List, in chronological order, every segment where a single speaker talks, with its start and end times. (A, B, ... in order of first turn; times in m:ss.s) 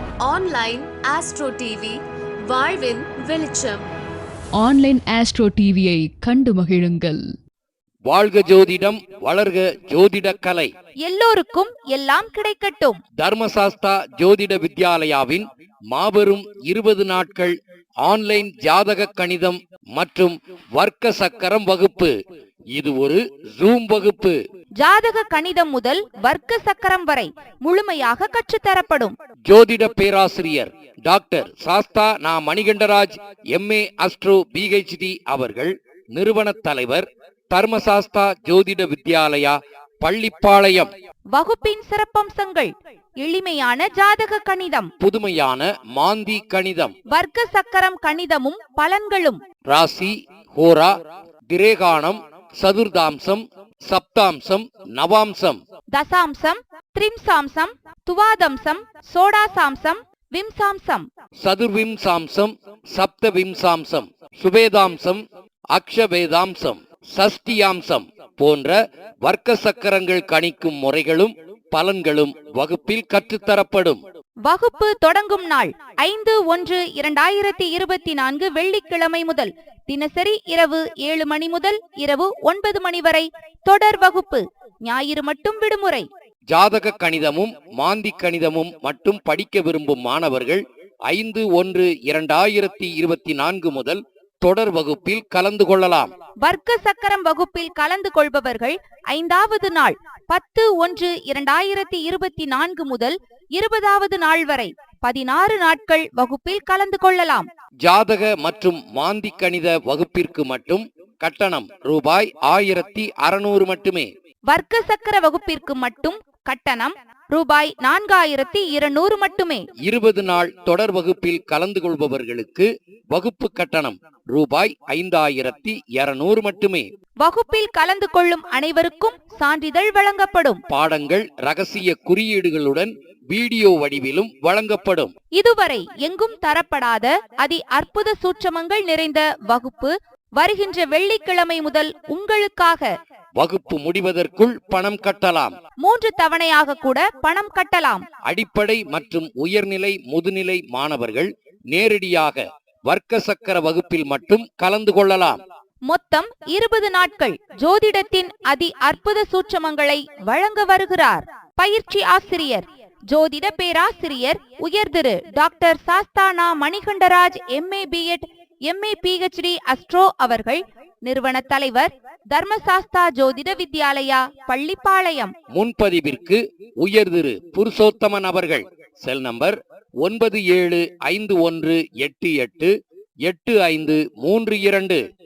0:00.2-0:03.9 A
0:04.6-0:07.2 B
0:08.1-0:10.7 C
0:11.0-0:13.0 D
0:13.2-0:17.5 C
0:18.0-0:22.1 C
0:22.7-0:24.4 C
0:24.8-0:29.2 D
0:29.5-0:40.9 C
0:41.3-0:44.9 D
0:45.0-0:47.0 C
0:47.1-0:49.4 D
0:49.7-0:50.9 C
0:51.5-0:55.6 C
0:55.9-1:01.1 D
1:01.4-1:05.2 C
1:05.7-1:14.0 C
1:14.5-1:26.1 D
1:26.5-1:36.1 C
1:36.4-1:47.5 D
1:47.8-1:54.1 C
1:54.5-1:59.6 D
1:59.9-2:06.8 C
2:07.2-2:10.6 D
2:10.7-2:15.1 C
2:15.4-2:22.9 D
2:23.4-2:25.6 C
2:25.8-2:28.0 D
2:28.3-2:35.4 C
2:35.9-2:55.3 D
2:55.5-3:02.7 C
3:03.3-3:05.0 C